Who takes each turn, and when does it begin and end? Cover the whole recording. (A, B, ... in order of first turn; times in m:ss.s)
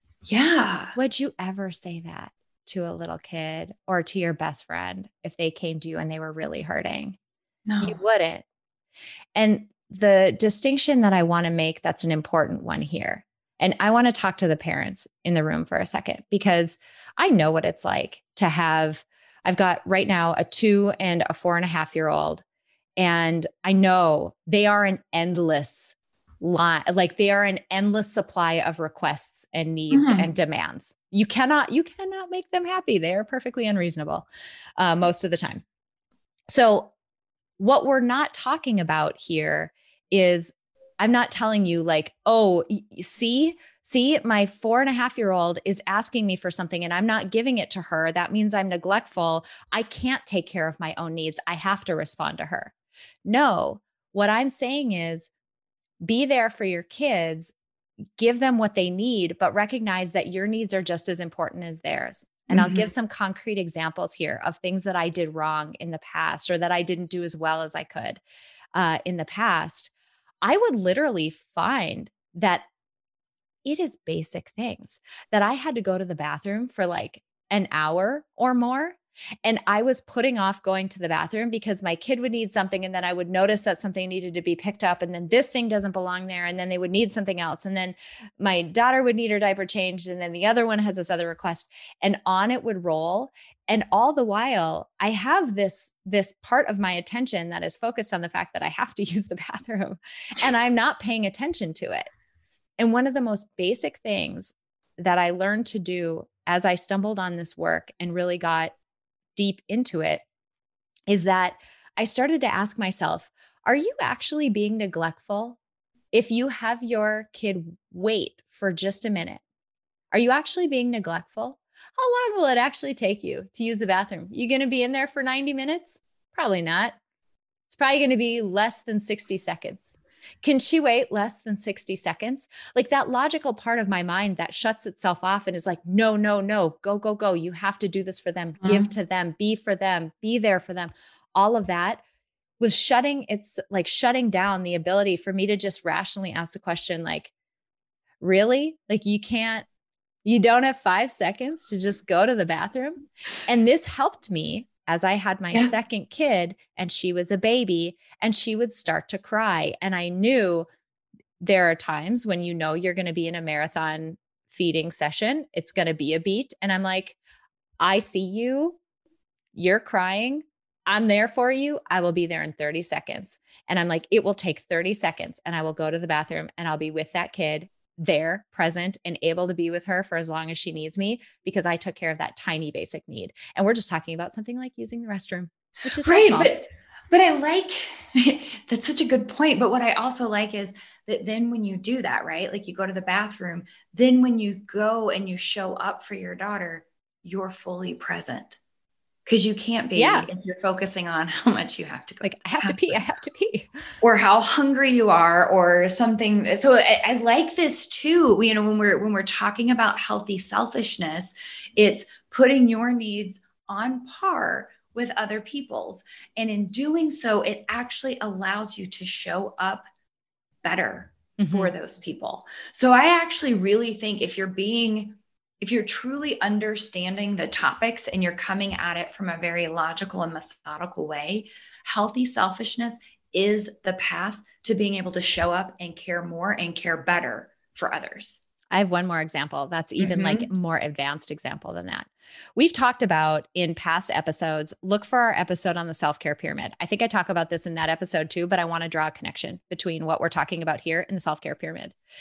0:00.2-0:01.0 A
0:00.9-0:07.2 B
0:07.6-0:08.0 A
0:07.8-0:08.4 B
0:09.3-0:22.4 B
0:23.0-0:35.6 B
0:29.9-0:30.3 A
0:36.5-0:36.9 B
0:37.6-0:52.7 B
0:53.2-0:55.3 B
0:56.0-0:57.5 B
0:58.2-1:08.2 B
1:02.5-1:02.9 A
1:08.7-1:09.9 B
1:10.4-1:12.6 B
1:13.6-1:42.1 B
1:42.8-1:48.7 B
1:49.4-1:50.2 B
1:51.1-1:55.6 B
1:56.1-1:59.4 B
2:00.1-2:07.0 B
2:07.7-2:22.0 B
2:18.6-2:18.9 A
2:22.6-2:27.3 B
2:28.2-2:29.6 B
2:30.2-2:40.7 B
2:41.4-2:47.2 B
2:47.8-2:48.8 B
2:49.5-3:06.5 B
3:06.0-3:18.6 A
3:19.2-3:23.0 A
3:19.9-3:20.3 B
3:22.2-3:23.7 B
3:24.0-3:39.8 A
3:40.6-3:58.4 A
3:41.4-3:41.7 B
3:58.7-4:11.9 B
4:00.0-4:00.5 A